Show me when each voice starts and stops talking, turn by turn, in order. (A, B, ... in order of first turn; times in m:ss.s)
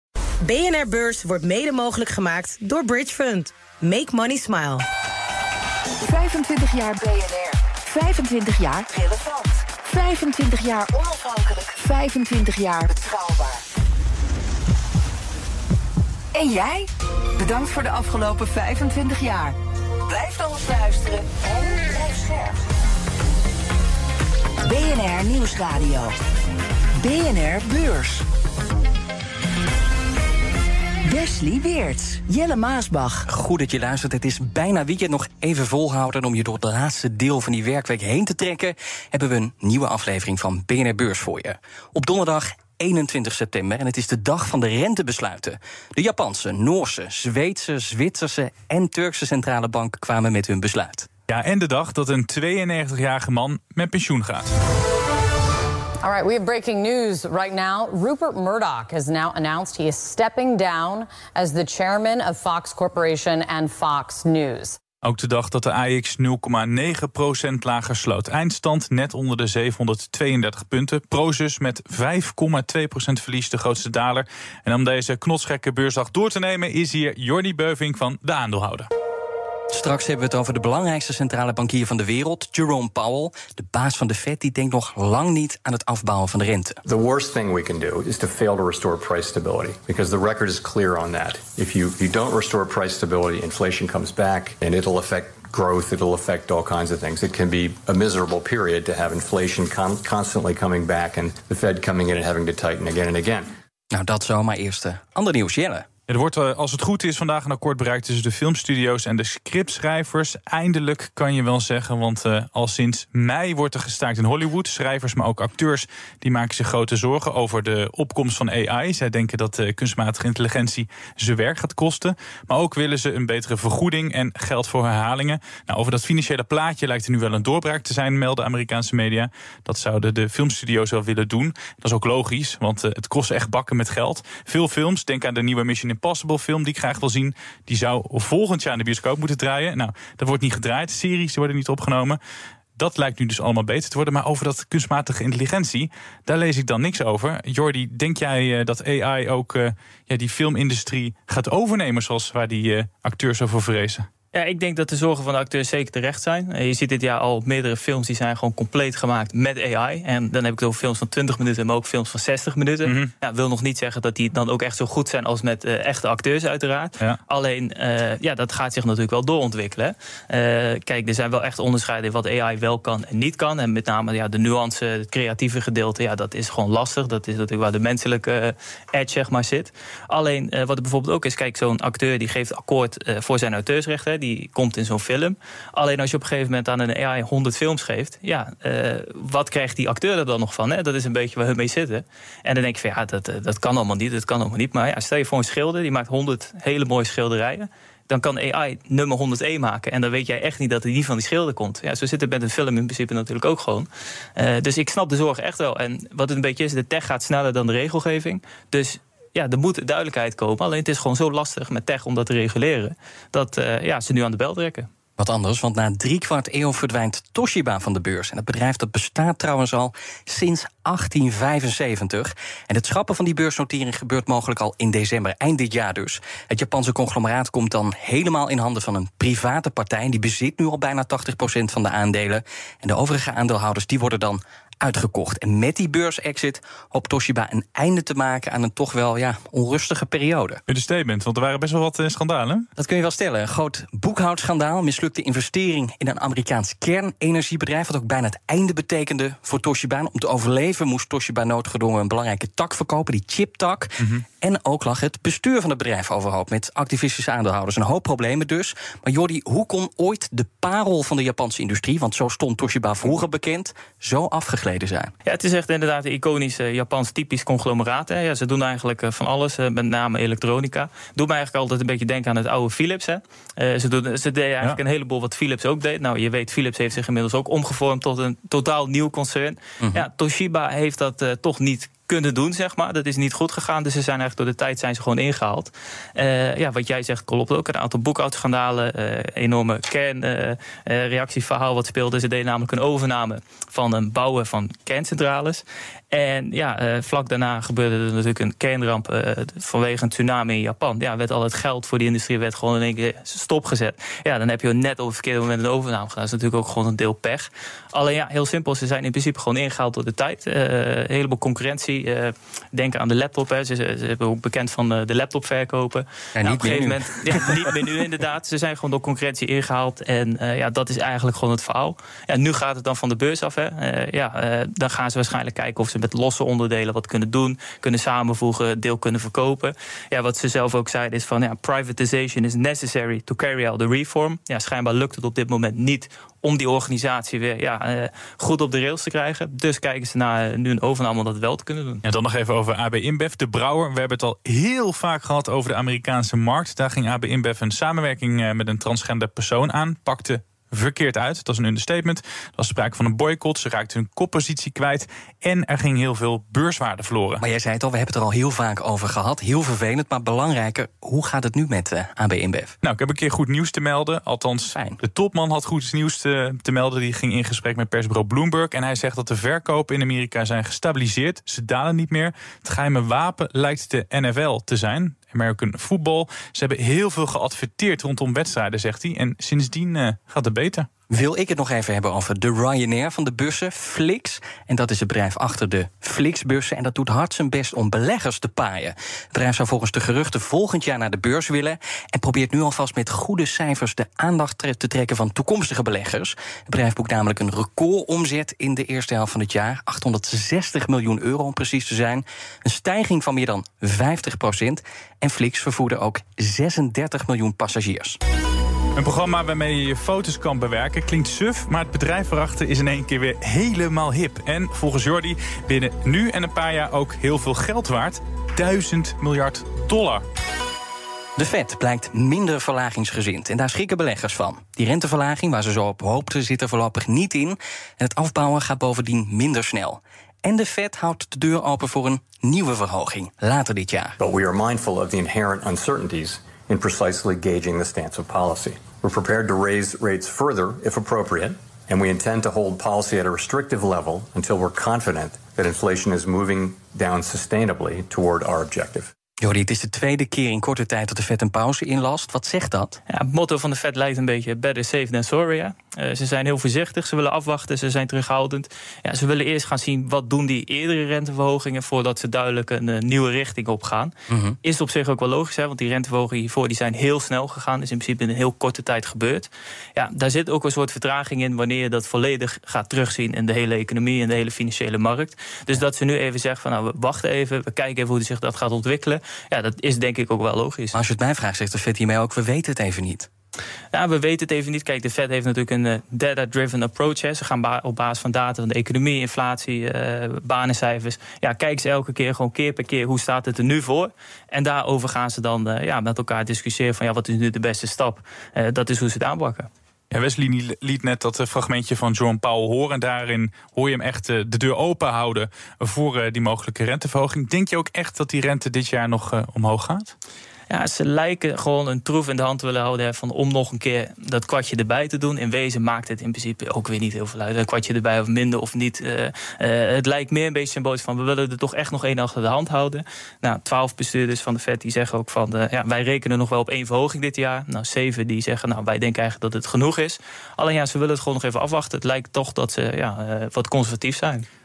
0:00.4-0:04.8 A
0:06.0-0:13.6 B
0:16.3-0:19.5 B
0:20.1-0:22.6 B
0:24.6-0:26.1 B
0:27.0-0:28.2 B
0:31.0-0:33.2 B
0:33.2-0:51.1 C
0:51.3-0:54.5 D
0:56.0-1:04.8 E
1:05.0-1:18.9 D
1:19.7-1:26.8 C
1:26.8-1:43.5 F
1:43.9-1:45.8 C
1:46.1-2:22.2 D
2:22.8-2:34.1 D
2:34.3-3:34.9 G
2:42.8-2:43.1 D
3:35.2-4:00.6 C
4:00.7-4:02.7 D
4:02.8-4:25.1 C
4:25.2-5:42.0 G
5:16.4-5:17.6 C
5:42.0-5:57.4 D
5:57.4-6:02.7 C
6:02.8-6:20.9 D
6:04.7-6:05.0 C
6:21.1-6:48.2 C
6:48.9-7:00.2 D
7:01.4-7:14.2 C
7:14.2-7:29.1 F
7:29.4-7:33.0 C
7:33.1-8:01.0 G
7:44.3-7:44.6 C
8:00.9-8:03.3 C
8:03.9-8:19.7 G
8:20.1-8:30.1 D
8:30.7-8:54.5 G